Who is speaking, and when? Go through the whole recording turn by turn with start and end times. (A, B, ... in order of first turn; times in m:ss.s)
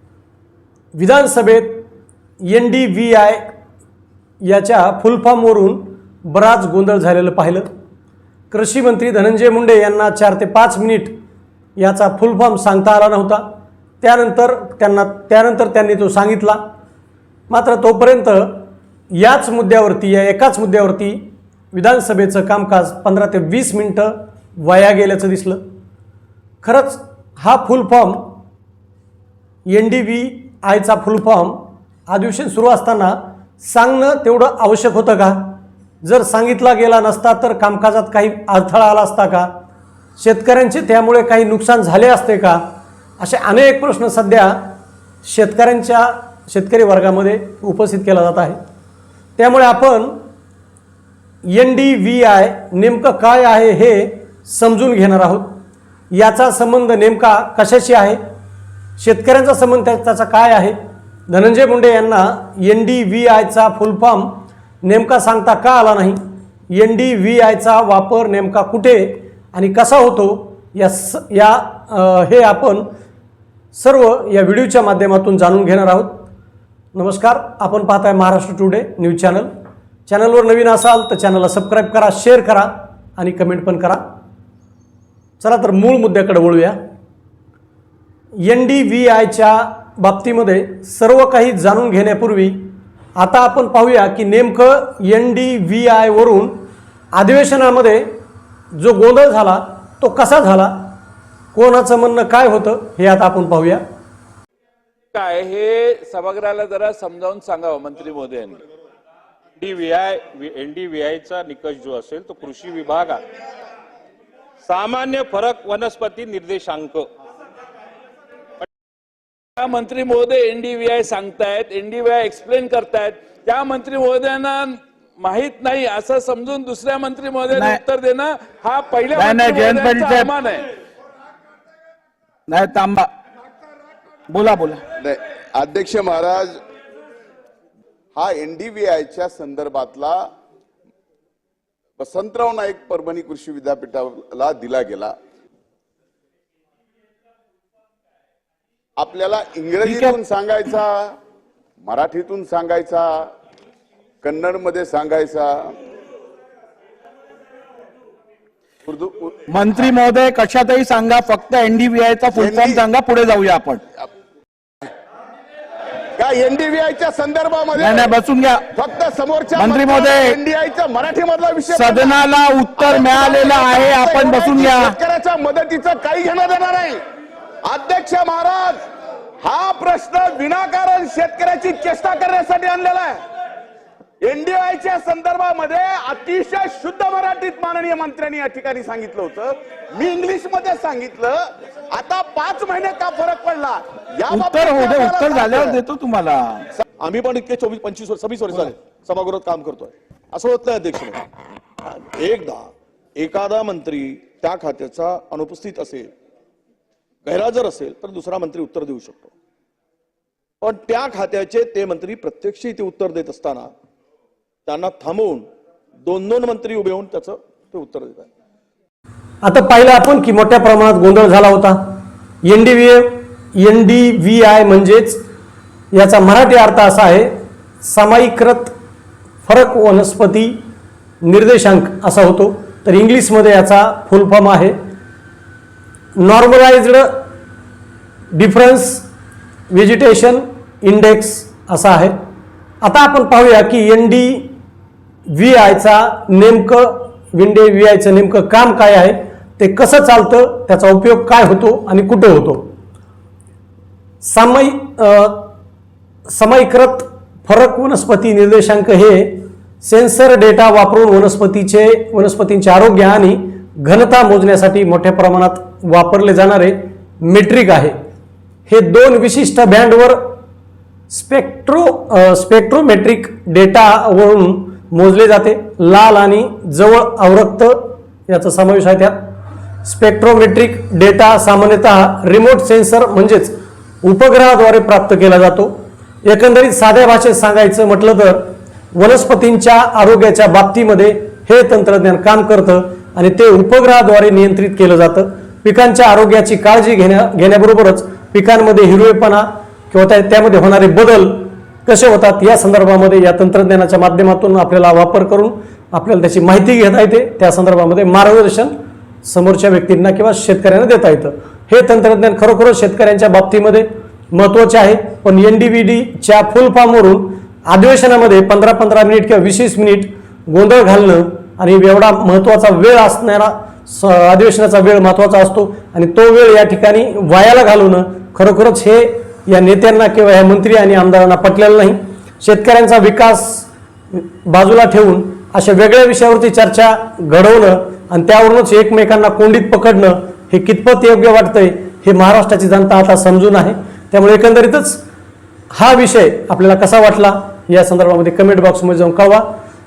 0:00.9-0:01.8 A
0:02.4-0:03.5 A
0:04.4-0:07.7 A
0:08.5-0:11.1 A
0:11.8-0:13.5 A
0:14.0-0:16.6 A
0:17.5-0:25.6 A
0:26.6-0:28.4 A
0:29.7-0:39.5 A
0:40.2-0:42.6 A
0:43.2-0:48.6 A
0:49.4-0:50.2 A
0:51.4-0:58.2 A
0:59.0-1:00.8 A
1:01.3-1:06.2 A
1:06.7-1:12.9 A
1:13.7-1:16.3 A
1:16.9-1:19.5 A
1:20.1-1:24.0 A
1:25.4-1:26.8 A
1:28.4-1:38.2 A
1:38.7-1:40.9 A
1:41.5-1:43.8 A
1:45.1-1:48.6 B
1:49.6-1:53.2 C
1:54.7-1:57.1 C
1:59.6-2:10.7 B
2:07.5-2:07.8 D
2:09.1-2:10.3 D
2:12.5-2:13.1 D
2:14.3-2:14.8 D
2:15.0-2:16.6 E
2:18.1-2:20.3 E
2:22.0-2:25.2 E
2:29.0-2:31.2 E
2:29.8-2:30.2 D
2:31.8-2:33.3 E
2:34.2-2:35.8 E
2:38.8-2:39.3 E
2:39.5-2:43.8 D
2:42.4-2:42.8 E
2:46.2-2:48.1 E
2:47.8-2:48.7 D
2:48.7-2:52.2 E
2:49.5-2:50.4 D
2:51.7-2:55.0 D
2:52.8-2:57.0 E
2:57.6-2:58.8 E
2:59.4-3:03.2 E
3:04.2-3:15.8 E
3:14.3-3:16.7 D
3:17.0-3:21.2 F
3:21.8-3:26.1 F
3:27.2-3:29.3 F
3:30.6-3:33.7 F
3:34.6-3:35.5 F
3:36.0-3:38.3 F
3:39.4-3:45.2 A
3:45.9-3:48.7 A
3:49.4-3:50.6 A
3:51.2-3:54.8 A
3:56.2-3:57.3 A
3:58.3-3:59.1 A
3:59.7-4:02.2 A
4:02.8-4:04.5 A
4:05.3-4:12.7 A
4:14.2-4:15.5 A
4:16.3-4:27.9 A
4:28.7-4:30.4 A
4:31.1-4:39.3 A
4:39.8-5:45.0 A
5:45.7-5:49.5 A